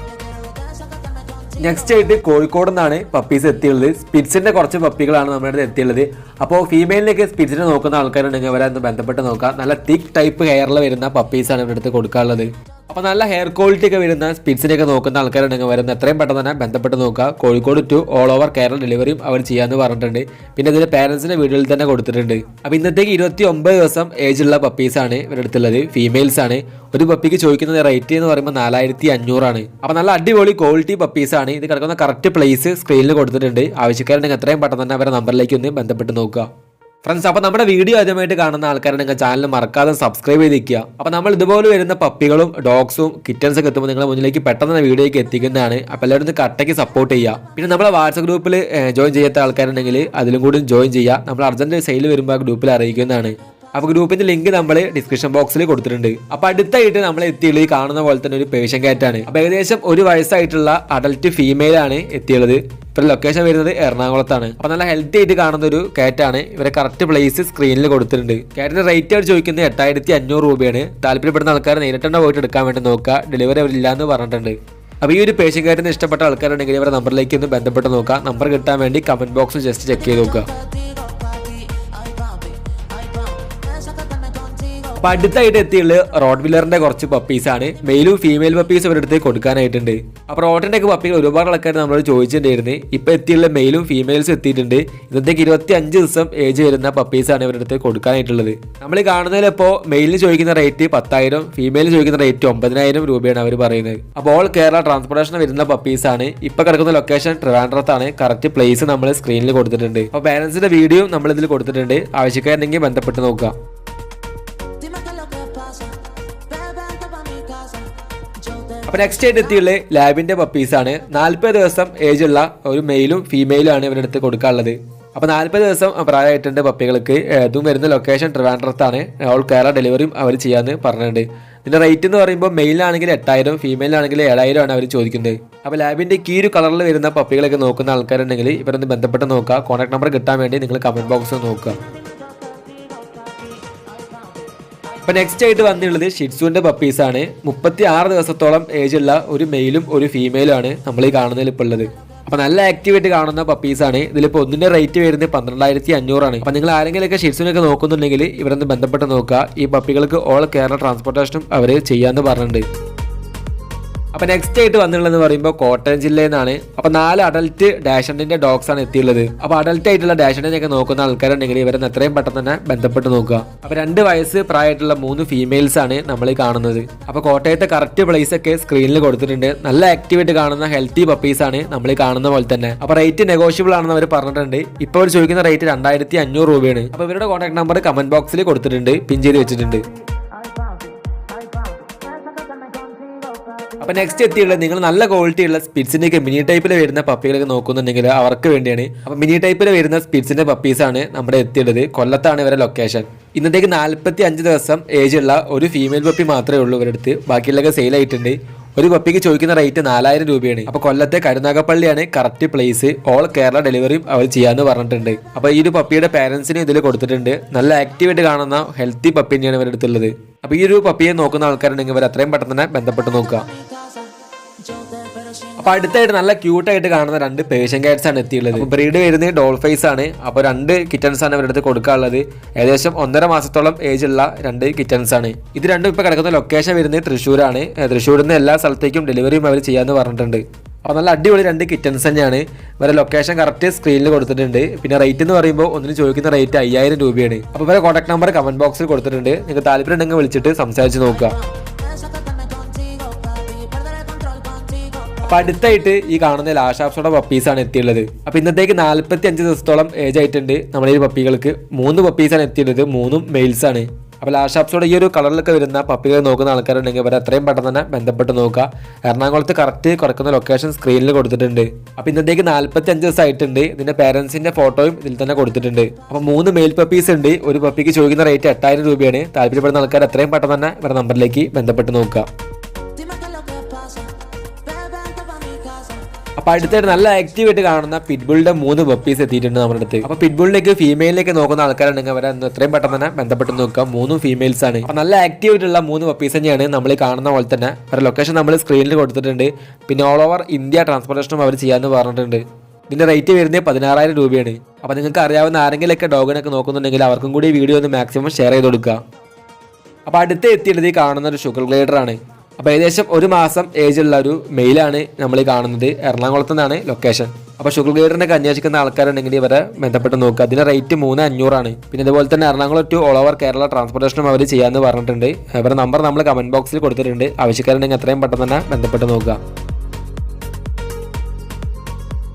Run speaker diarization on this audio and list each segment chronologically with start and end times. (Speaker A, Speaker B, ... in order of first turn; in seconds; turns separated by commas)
Speaker A: 0.2-1.5, Speaker B: 1.5-36.5, Speaker B: 37.0-80.5, Speaker A: 80.5-84.9, Speaker B: 84.9-113.5, Speaker A: 114.8-118.8, Speaker B: 118.9-141.8, Speaker A: 142.1-144.5, Speaker B: 145.0-162.6, Speaker B: 164.1-189.9, Speaker A: 190.4-193.8, Speaker B: 193.8-223.5, Speaker A: 223.6-225.6, Speaker B: 225.6-251.4, Speaker A: 251.6-255.3, Speaker B: 255.2-282.3, Speaker A: 282.9-286.1, Speaker B: 286.4-309.0, Speaker B: 310.1-329.4